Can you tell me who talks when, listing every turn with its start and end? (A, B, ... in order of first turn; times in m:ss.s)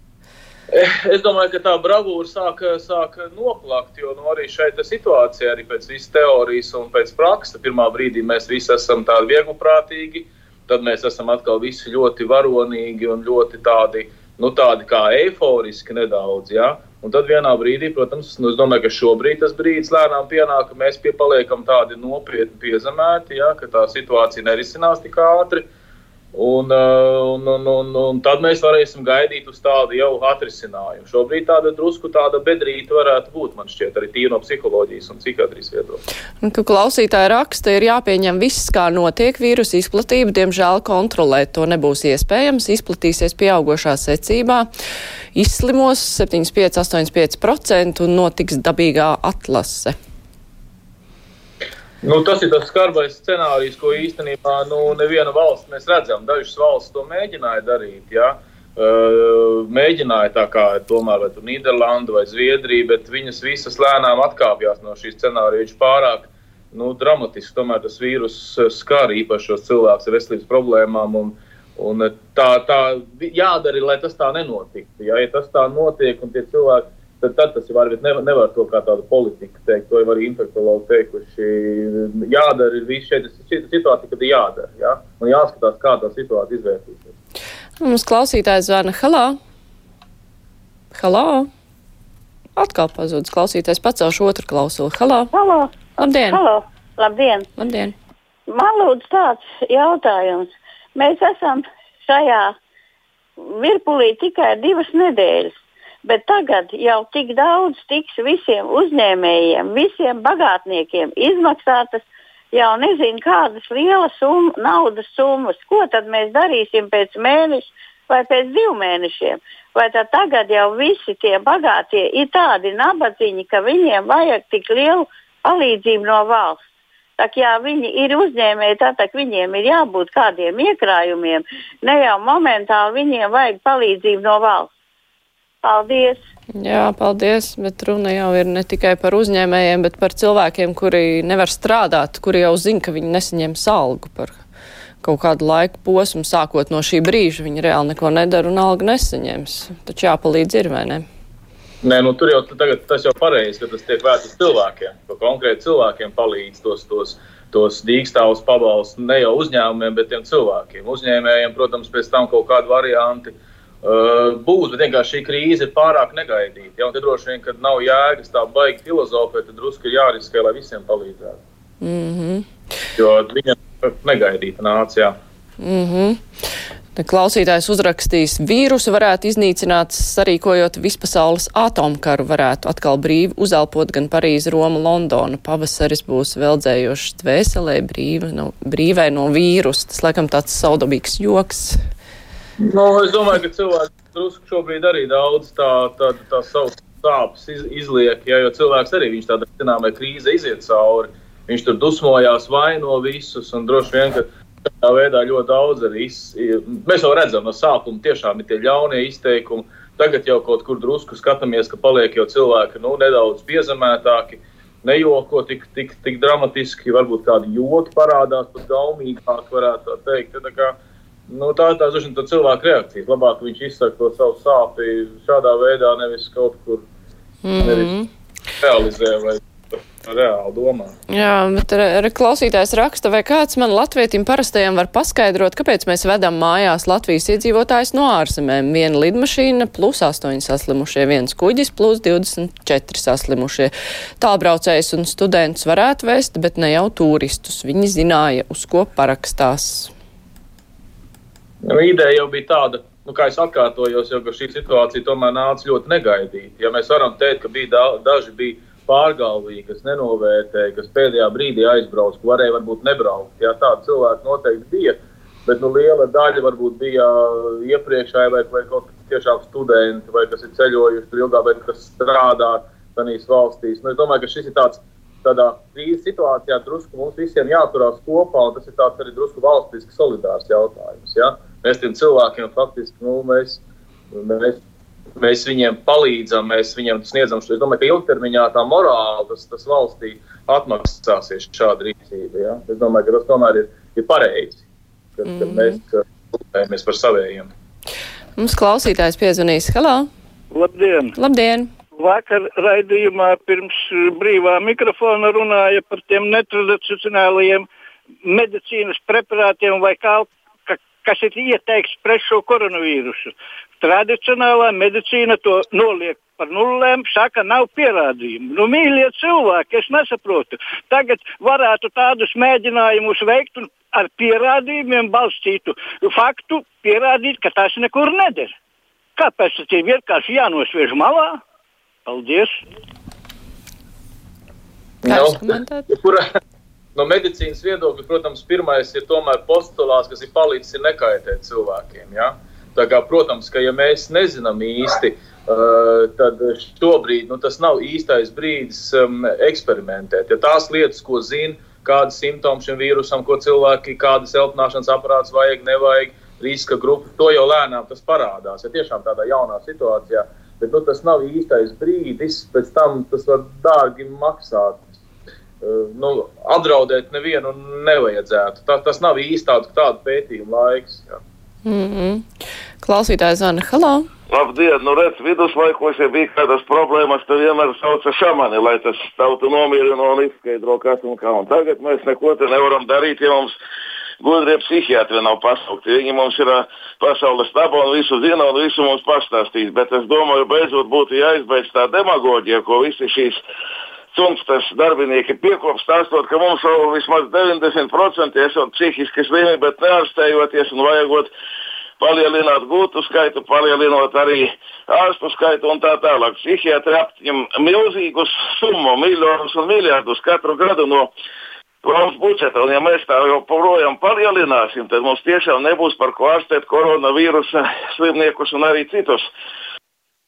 0:00.7-0:25.6 A
0:26.3-0:36.0 A
0:36.4-0:44.7 B
0:45.3-0:50.0 B
0:52.0-1:27.1 A
1:27.8-1:29.4 B
1:30.9-1:31.5 B
1:32.6-1:35.3 B
1:35.3-1:37.5 C
1:36.0-1:36.4 B
1:37.6-1:37.9 B
1:38.5-1:42.5 C
1:43.4-2:06.6 C
2:07.2-2:14.7 C
2:15.6-2:16.2 C
2:16.5-2:24.4 B
2:25.0-2:31.0 B
2:31.8-2:51.4 A
2:51.8-2:52.5 B
2:53.0-2:55.2 A
2:55.6-2:56.2 B
2:57.0-3:11.8 B
3:12.6-3:40.8 A
3:41.3-3:46.8 A
3:47.4-3:48.1 B
3:47.6-3:47.9 A
3:48.6-3:50.9 A
3:51.1-4:09.9 B
4:11.6-4:44.6 A
4:45.2-4:54.6 A
4:55.2-4:57.5 A
4:55.2-4:55.8 B
4:58.4-5:00.1 B
5:00.5-5:01.1 D
5:01.2-5:01.7 B
5:01.9-5:07.7 D
5:08.2-5:28.5 D
5:29.2-5:31.4 D
5:32.0-5:32.6 D
5:35.0-5:36.2 A
5:35.1-5:35.9 B
5:36.9-6:04.9 A
6:05.6-6:11.2 A
6:11.6-6:12.2 B
6:12.8-6:14.1 B
6:14.3-6:23.5 E
6:24.2-6:33.4 E
6:34.1-6:41.3 E
6:42.0-6:51.1 E
6:51.8-6:59.3 E